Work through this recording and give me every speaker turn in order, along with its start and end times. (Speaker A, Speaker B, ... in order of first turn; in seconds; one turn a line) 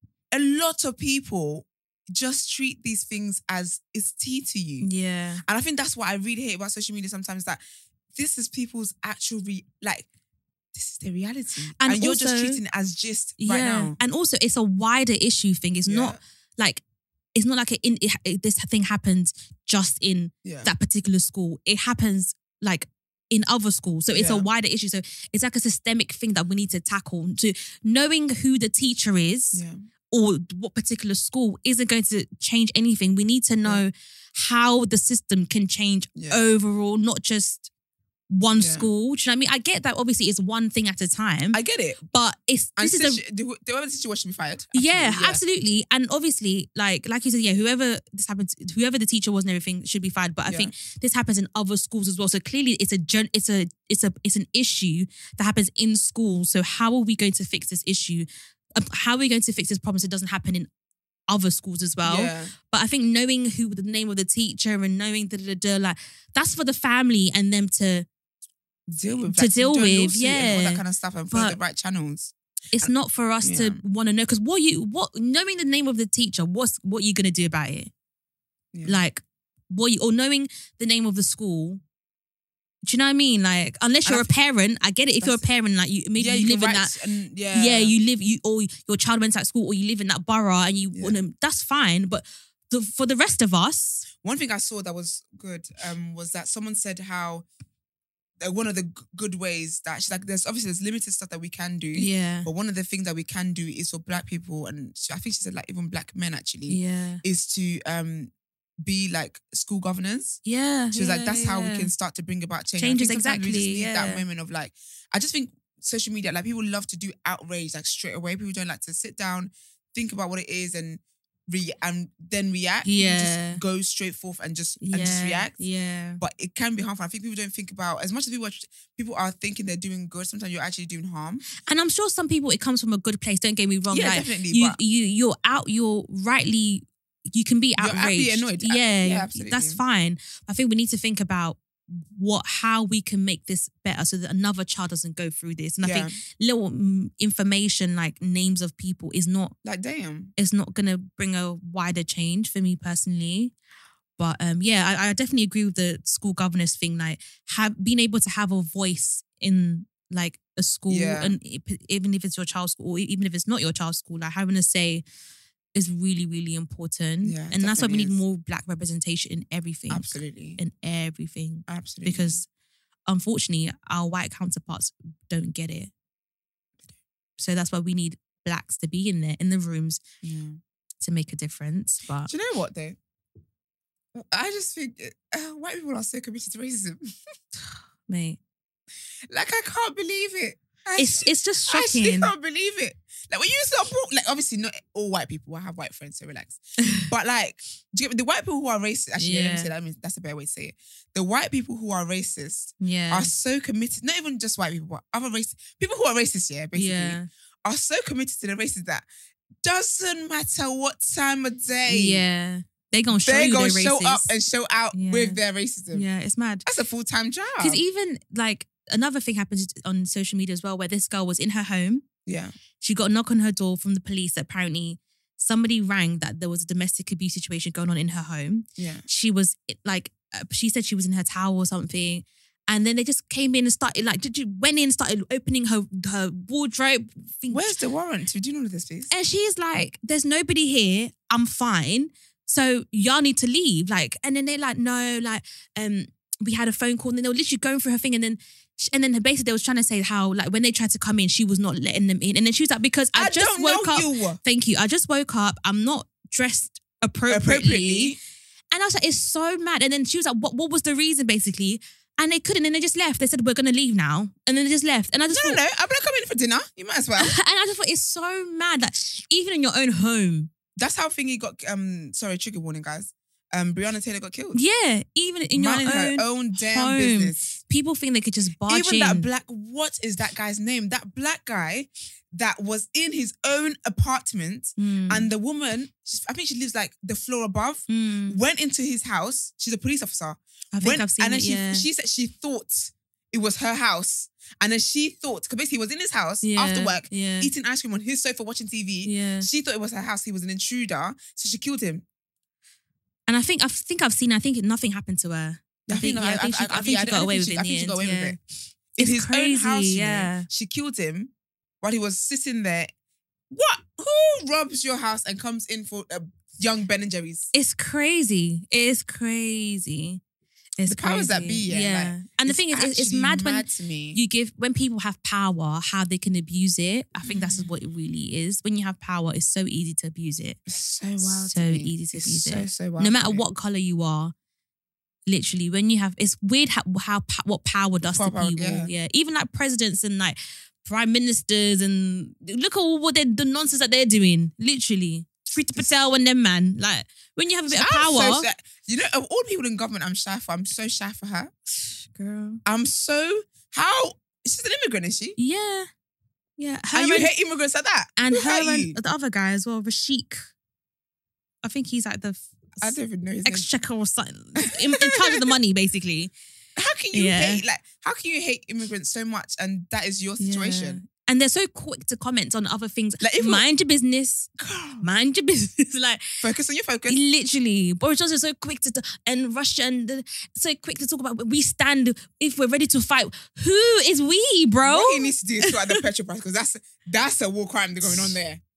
Speaker A: 0.3-4.9
Speaker B: 4.8-5.4
Speaker A: 5.5-7.6
Speaker A: 8.2-10.1
Speaker A: 10.7-14.0
Speaker B: 11.8-12.6
Speaker B: 13.4-16.8
Speaker A: 15.8-16.2
Speaker B: 17.4-37.7
Speaker A: 20.4-20.7
Speaker A: 24.1-24.5
Speaker A: 29.5-29.8
Speaker A: 36.1-36.4
Speaker B: 38.3-41.6
Speaker A: 38.6-38.9
Speaker A: 41.5-42.0
Speaker B: 42.1-43.2
Speaker A: 42.8-45.4
Speaker B: 44.7-60.7
Speaker A: 50.5-50.7
Speaker B: 61.3-68.1
Speaker A: 62.0-62.5
Speaker A: 68.9-72.9
Speaker B: 69.2-71.6
Speaker B: 72.7-77.9
Speaker A: 73.4-73.8
Speaker A: 78.7-79.0
Speaker B: 78.8-81.8
Speaker B: 82.8-87.0
Speaker A: 84.1-84.3
Speaker A: 86.2-87.9
Speaker B: 87.5-94.1
Speaker A: 94.2-97.5
Speaker A: 98.4-125.6
Speaker B: 101.9-102.5
Speaker B: 106.7-107.2
Speaker B: 110.5-111.9
Speaker B: 112.8-114.2
Speaker B: 122.8-123.6
Speaker B: 124.8-126.2
Speaker A: 126.2-131.5
Speaker B: 131.7-149.5
Speaker A: 133.9-134.8
Speaker A: 137.8-139.8
Speaker A: 145.8-146.1
Speaker A: 149.6-150.3
Speaker B: 150.4-153.5
Speaker B: 154.2-165.0
Speaker A: 160.9-161.3
Speaker B: 165.8-172.5
Speaker A: 167.2-168.2
Speaker A: 169.9-170.6
Speaker A: 171.7-172.4
Speaker B: 173.1-175.9
Speaker B: 177.4-180.0
Speaker A: 180.2-180.6
Speaker B: 181.0-182.3
Speaker A: 182.2-183.0
Speaker A: 184.1-187.1
Speaker B: 188.1-188.4
Speaker A: 189.3-209.1
Speaker B: 191.0-192.3
Speaker B: 199.2-199.7
Speaker B: 202.8-203.3
Speaker B: 206.7-207.3
Speaker A: 209.6-212.2
Speaker B: 211.9-214.3
Speaker A: 213.1-216.1
Speaker B: 214.9-215.4
Speaker B: 215.9-216.7
Speaker A: 216.7-217.8
Speaker B: 217.6-222.1
Speaker A: 222.3-222.6
Speaker B: 222.8-237.7
Speaker A: 228.8-229.1
Speaker A: 237.5-239.1
Speaker B: 239.1-258.2
Speaker A: 253.2-254.4
Speaker A: 257.3-258.2
Speaker B: 258.7-265.6
Speaker A: 265.3-267.4
Speaker B: 267.2-270.5
Speaker A: 270.8-274.6
Speaker B: 274.5-279.3
Speaker A: 275.5-277.6
Speaker A: 278.7-302.0
Speaker B: 284.8-285.3
Speaker B: 287.9-288.4
Speaker B: 290.7-291.9
Speaker B: 296.4-297.5
Speaker B: 299.0-299.5
Speaker B: 303.3-308.4
Speaker A: 305.9-308.4
Speaker B: 309.0-310.5
Speaker A: 309.0-312.9
Speaker A: 313.5-317.5
Speaker B: 317.5-320.2
Speaker B: 320.8-330.6
Speaker A: 320.9-324.2
Speaker A: 327.2-327.7
Speaker A: 330.7-333.4
Speaker B: 331.2-334.3
Speaker B: 335.3-348.5
Speaker A: 338.0-338.9
Speaker A: 347.7-351.5
Speaker B: 351.9-352.6
Speaker A: 352.6-355.4
Speaker B: 355.4-355.9
Speaker B: 356.6-357.3
Speaker A: 356.9-359.0
Speaker B: 358.2-360.4
Speaker B: 361.6-366.3
Speaker A: 362.8-363.7
Speaker A: 364.6-365.5
Speaker A: 366.8-371.0
Speaker B: 367.1-367.6
Speaker B: 370.4-374.5
Speaker A: 373.2-373.6
Speaker A: 374.6-375.1
Speaker B: 375.0-376.3
Speaker A: 376.4-377.2
Speaker B: 377.1-386.0
Speaker A: 384.8-388.6
Speaker B: 388.1-388.3